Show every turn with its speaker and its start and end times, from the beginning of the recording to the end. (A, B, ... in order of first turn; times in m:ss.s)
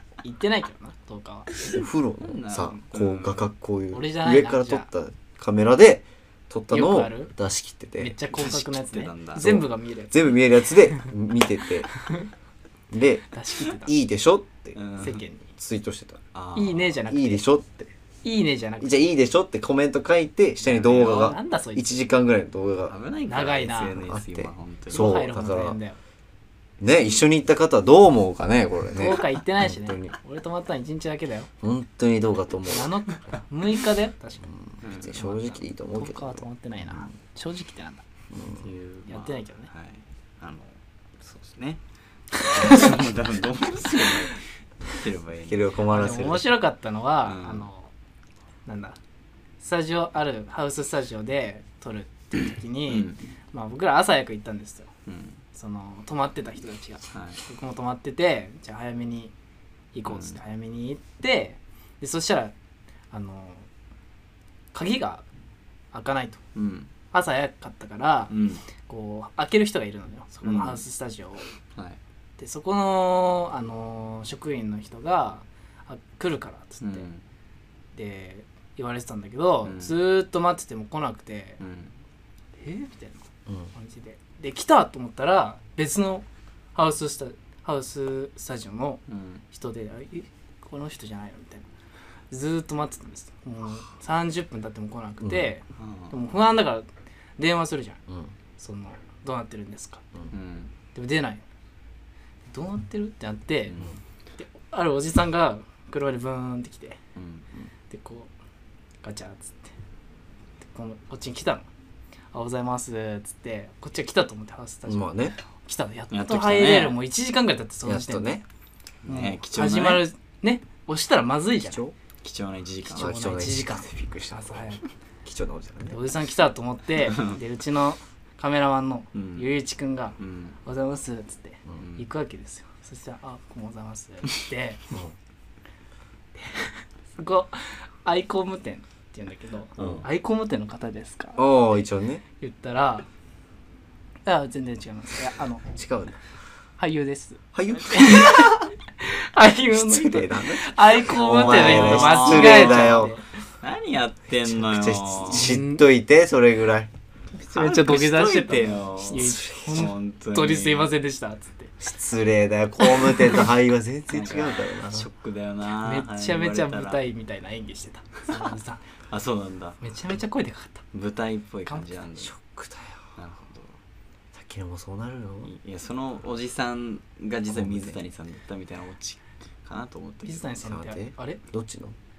0:00.2-0:01.7 A
0:01.7-0:08.1 B
0:02.2-0:03.5 C
0:03.9-0:04.9 A
0:06.7-0:07.3 A
0:08.0-0:10.3 A
0:08.3-0:09.4 C
0:09.4-0:11.9 B
0:12.0-0:12.2 A
0:12.9-0:13.3 B
0:13.3-0:13.9 A
0:13.8-0:14.8 B
0:14.7-0:15.2 C
0:15.0-0:15.5 A
0:15.6-0:16.2 B
0:16.3-0:17.0 C
0:16.6-0:17.4 A
0:17.1-0:17.9 B
0:18.2-0:19.0 A
0:18.8-0:22.9 B
0:20.6-0:21.4 C
0:20.9-0:22.0 A
0:22.9-0:25.1 C
0:23.3-0:24.0 A
0:23.9-0:25.8 B
0:24.9-0:26.0 A
0:26.8-0:30.1 B
0:28.9-0:31.5 A
0:31.6-0:32.9 B
0:32.7-0:34.5 A
0:34.5-0:37.1 B
0:34.8-0:35.6 C
0:35.9-0:38.0 A
0:38.3-0:38.6 B
0:38.6-0:41.8 C
0:39.1-0:39.7 A
0:42.3-0:45.6 C
0:45.5-0:46.5 B
0:45.9-0:47.9 A
0:47.2-0:47.7 C
0:48.6-0:49.0 A
0:49.6-0:54.9 A
0:52.9-0:53.2 C
0:55.0-0:55.4 C
0:55.5-0:59.3 A
0:57.1-0:57.4 C
0:59.9-1:02.5 A
1:00.1-1:00.4 C
1:03.1-1:03.6 A
1:04.7-1:05.2 A
1:05.9-1:06.4 A
1:06.5-1:06.9 C
1:07.1-1:11.5 A
1:08.3-1:08.6 C
1:10.4-1:10.8 C
1:12.4-1:17.0 A
1:16.8-1:17.2 C
1:17.9-1:21.6 A
1:19.6-1:20.0 C
1:21.6-1:21.9 C
1:22.6-1:31.6 A
1:29.1-1:29.4 C
1:32.3-1:36.8 A
1:35.8-1:36.1 C
1:37.4-1:38.0 A
1:38.6-1:40.0 A
1:40.3-1:40.7 C
1:40.9-1:41.4 A
1:42.5-1:43.8 A
1:44.4-1:47.0 A
1:47.2-1:47.4 C
1:47.9-1:48.3 A
1:49.0-1:49.7 A
1:50.7-1:51.6 A
1:52.3-1:58.4 A
1:54.9-1:55.4 B
1:56.1-1:57.0 C
1:57.8-1:58.4 B
1:59.0-2:00.0 C
1:59.1-2:01.8 A
2:01.6-2:01.9 B
2:02.2-2:03.1 C
2:02.9-2:04.8 A
2:03.0-2:04.7 B
2:05.2-2:06.0 B
2:05.9-2:14.8 A
2:07.0-2:07.4 C
2:09.1-2:09.5 C
2:10.2-2:10.6 C
2:11.8-2:12.0 C
2:16.4-2:21.4 A
2:19.8-2:20.0 C
2:21.4-2:22.2 B
2:22.4-2:23.1 A
2:24.2-2:25.7 A
2:25.8-2:26.2 B
2:26.8-2:33.2 A
2:27.5-2:28.3 B
2:29.7-2:33.1 B
2:31.3-2:33.1 C
2:33.6-2:35.6 C
2:34.4-2:36.9 B
2:35.3-2:35.8 A
2:37.4-2:40.9 C
2:37.5-2:41.7 A
2:39.1-2:39.9 B
2:41.8-2:45.1 B
2:43.0-2:43.3 A
2:44.1-2:47.0 C
2:45.8-2:48.8 A
2:49.1-2:49.8 C
2:49.8-2:50.8 A
2:50.9-2:52.3 C
2:52.2-2:53.1 B
2:53.2-2:53.8 C
2:54.3-2:55.5 B
2:55.4-3:00.5 C
2:57.5-2:58.0 B
3:00.2-3:01.4 A
3:00.6-3:01.9 B